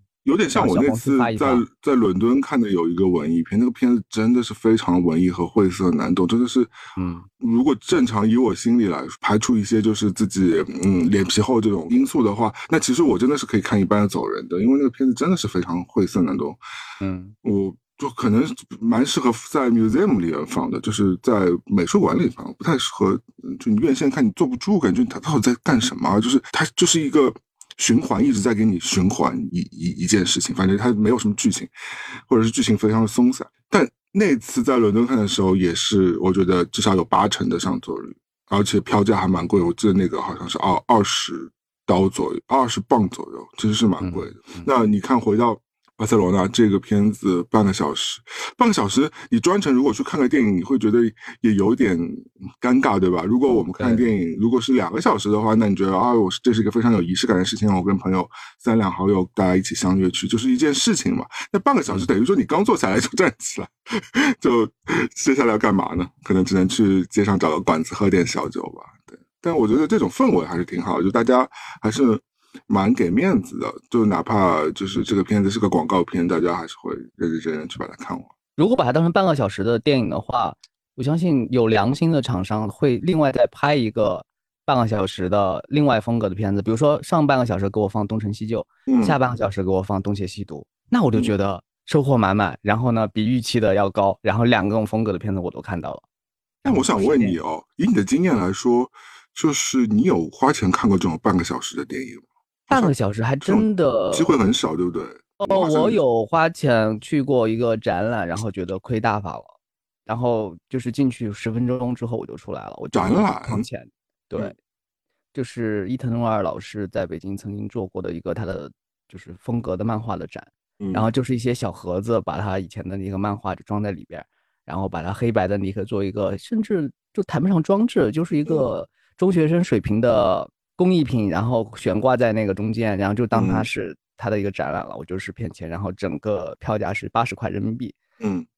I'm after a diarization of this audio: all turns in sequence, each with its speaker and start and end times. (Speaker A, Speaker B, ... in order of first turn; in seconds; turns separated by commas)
Speaker A: 0.2-6.7, Speaker B: 0.5-1.6, Speaker B: 7.0-7.2, Speaker A: 7.4-16.6, Speaker B: 17.0-17.3, Speaker A: 17.4-31.7, Speaker A: 32.3-78.3, Speaker B: 44.0-44.7, Speaker B: 53.8-54.1, Speaker B: 78.6-96.0, Speaker A: 88.9-89.2, Speaker B: 96.6-97.4, Speaker A: 96.7-106.0, Speaker B: 102.7-104.3, Speaker B: 105.4-109.5, Speaker B: 110.1-114.5, Speaker A: 112.9-113.6, Speaker B: 115.3-137.9, Speaker A: 120.8-121.1, Speaker A: 133.3-133.7, Speaker A: 138.2-138.5